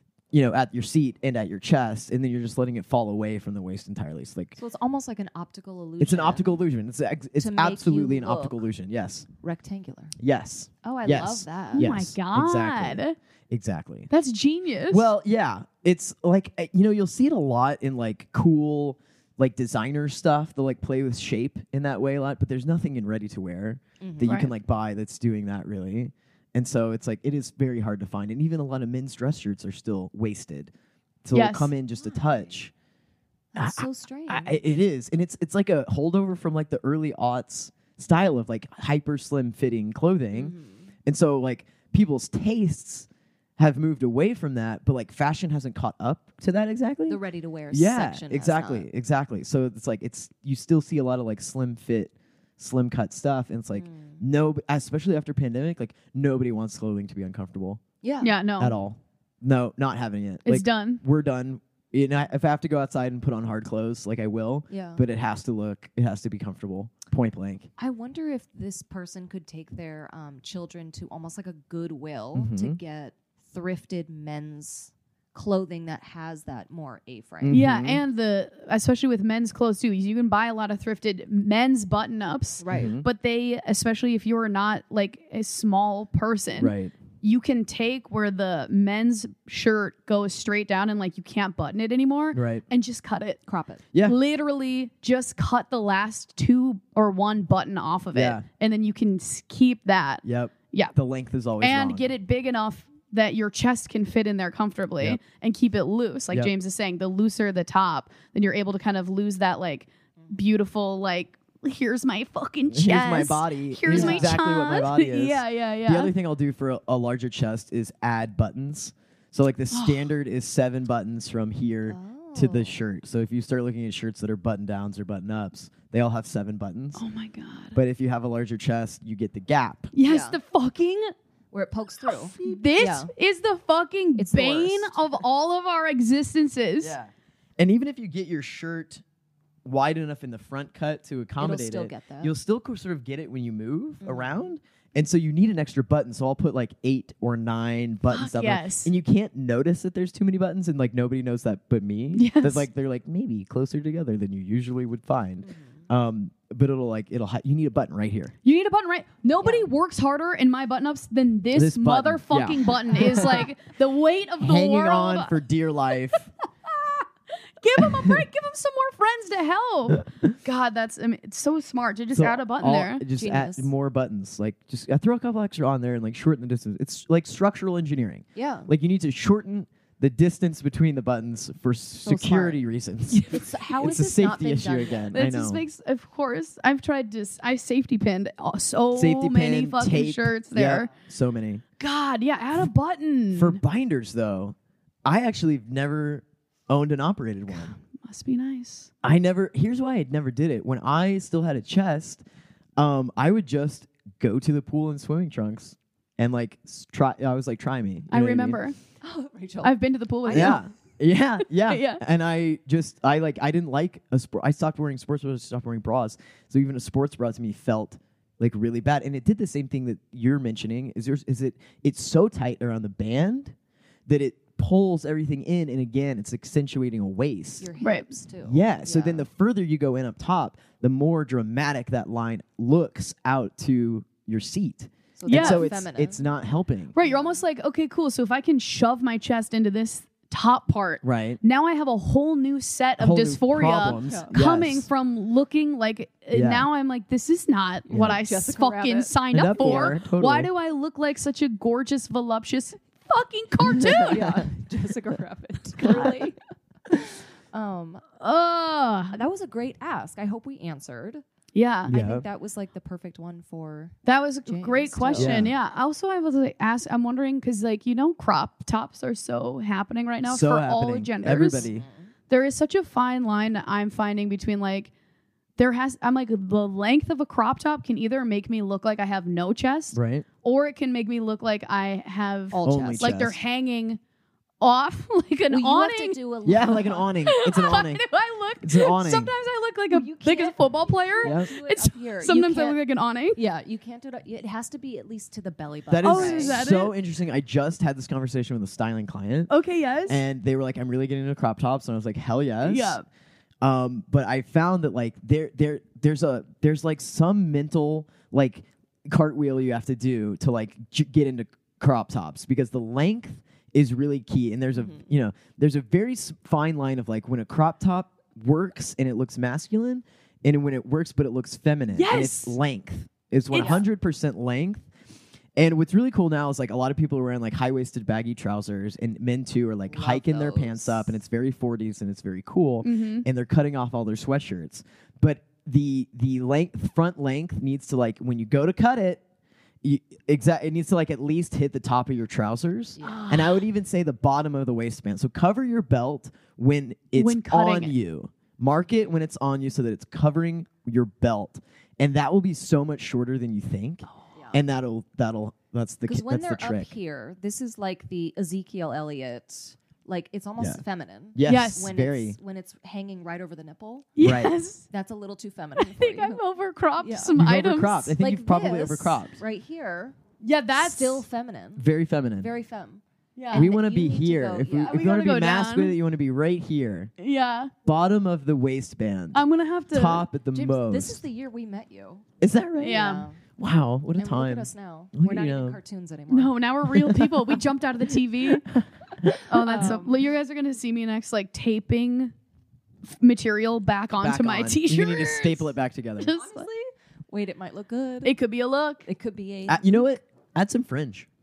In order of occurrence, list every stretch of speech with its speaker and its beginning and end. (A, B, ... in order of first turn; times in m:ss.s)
0:00.3-0:04.6 A
0:04.6-0:06.6 B
0:06.0-0:09.3 A
0:07.4-0:08.6 B
0:09.4-0:10.2 B
0:10.2-0:14.1 A
0:10.8-0:11.9 B
0:11.7-0:13.2 C
0:14.1-0:15.1 C
0:14.9-0:30.7 A
0:24.0-0:24.4 B
0:24.3-0:24.5 C
0:31.2-0:32.7 A
0:31.3-0:31.7 C
0:32.0-0:32.5 B
0:33.5-0:34.6 B
0:33.6-0:40.5 A
0:40.3-0:40.9 B
0:41.0-0:47.2 A
0:47.1-0:48.9 B
0:47.7-0:57.8 A
0:53.7-0:54.2 B
0:58.0-0:58.4 B
0:58.2-0:58.7 C
0:58.6-1:07.7 A
1:00.4-1:01.0 C
1:04.7-1:05.0 B
1:07.8-1:17.6 B
1:12.3-1:12.8 A
1:17.4-1:18.0 A
1:17.5-1:33.4 C
1:22.6-1:22.9 B
1:22.7-1:23.1 A
1:26.6-1:26.9 A
1:32.3-1:32.6 A
1:33.5-1:33.8 B
1:34.0-1:40.9 C
1:38.1-1:38.4 A
1:40.2-1:42.1 A
1:41.6-1:56.1 C
1:52.7-2:07.0 A
1:53.9-1:54.3 B
1:59.7-2:00.1 C
2:01.9-2:02.8 B
2:07.0-2:07.8 C
2:07.7-2:09.9 A
2:09.9-2:11.1 C
2:10.0-2:10.4 B
2:11.5-2:13.1 B
2:12.4-2:17.0 C
2:14.2-2:15.0 B
2:16.8-2:19.0 A
2:19.6-2:38.3 A
2:21.4-2:22.3 B
2:24.0-2:24.5 B
2:28.1-2:28.9 C
2:32.2-2:32.7 C
2:35.4-2:35.9 B
2:38.4-2:45.4 C
2:39.4-2:39.6 B
2:41.5-2:43.5 A
2:44.4-2:46.3 A
2:46.7-2:47.0 C
2:47.6-2:53.0 C
2:47.8-2:48.2 A
2:52.1-3:05.6 A
2:53.2-2:53.7 B
2:58.3-2:58.7 B
3:02.0-3:02.6 B
3:03.1-3:03.4 C
3:03.3-3:05.2 B
3:05.1-3:10.9 C
3:08.9-3:11.6 A
3:11.8-3:13.6 C
3:13.3-3:17.7 A
3:17.5-3:18.9 C
3:19.0-3:22.2 A
3:22.8-3:28.6 A
3:28.1-3:28.8 C
3:29.0-3:30.6 B
3:29.6-3:30.6 C
3:30.3-3:43.6 A
3:31.6-3:32.0 C
3:44.1-3:47.7 A
3:47.6-3:49.3 B
3:47.8-3:48.1 C
3:48.4-3:56.9 A
3:55.2-3:56.3 B
3:55.3-3:55.7 C
3:56.9-4:14.4 C
3:57.0-3:57.4 B
4:01.0-4:01.4 A
4:03.0-4:04.9 A
4:04.0-4:04.3 B
4:06.3-4:06.7 A
4:07.9-4:09.9 B
4:07.9-4:08.2 A
4:09.3-4:10.5 A
4:13.7-4:14.3 A
4:13.8-4:16.4 B
4:15.8-4:16.2 C
4:16.9-4:18.0 B
4:18.2-4:19.2 C
4:19.1-4:21.2 B
4:21.6-4:22.0 C
4:21.9-4:22.2 A
4:21.9-4:25.5 B
4:24.0-4:31.7 C
4:25.1-4:25.5 A
4:30.2-4:31.9 A
4:31.4-4:32.1 B
4:32.3-4:34.9 C
4:35.6-4:44.0 C
4:39.9-4:40.3 A
4:42.5-4:43.3 B
4:42.6-4:43.4 A
4:44.6-4:46.2 C
4:45.5-4:47.1 B
4:46.4-4:48.1 A
4:47.2-4:53.4 C
4:48.6-4:49.3 A
4:49.9-4:52.8 B
4:51.2-4:51.5 A
4:53.3-4:56.6 B
4:55.9-4:59.5 A
4:56.0-4:56.9 C
4:59.5-5:00.2 C
5:00.1-5:03.0 A
5:02.6-5:03.0 C
5:03.6-5:24.9 A
5:14.7-5:15.1 B
5:21.9-5:22.6 C
5:23.5-5:23.8 C
5:23.6-5:23.8 B
5:25.6-5:39.2 A
5:29.9-5:31.2 B
5:32.8-5:33.3 C
5:39.8-5:57.0 A
5:43.0-5:43.3 B
5:43.0-5:43.6 C
5:47.1-5:48.0 C
5:54.3-5:54.6 B
5:56.0-6:04.1 B
6:01.3-6:02.4 A
6:01.4-6:01.9 C
6:04.2-6:04.8 C
6:04.2-6:04.6 A
6:04.9-6:06.4 B
6:05.8-6:08.1 C
6:07.0-6:07.3 B
6:07.3-6:09.4 A
6:08.2-6:10.2 B
6:10.4-6:11.2 C
6:10.7-6:11.9 B
6:11.8-6:12.5 A
6:12.4-6:15.0 B
6:13.4-6:13.7 C
6:13.5-6:17.1 A
6:14.8-6:16.0 C
6:17.2-6:17.7 C
6:17.8-6:21.2 A
6:19.3-6:20.3 C
6:20.5-6:22.3 B
6:22.4-6:25.8 A
6:22.8-6:23.3 C
6:22.9-6:23.4 B
6:24.2-6:26.6 B
6:26.3-6:28.7 C
6:26.9-6:27.6 A
6:28.4-6:29.5 A
6:29.5-6:32.3 C
6:29.5-6:30.2 B
6:33.1-6:36.7 C
6:34.2-6:36.4 A
6:36.3-6:38.4 B
6:38.2-6:39.0 C
6:39.0-6:40.0 B
6:39.7-6:41.3 A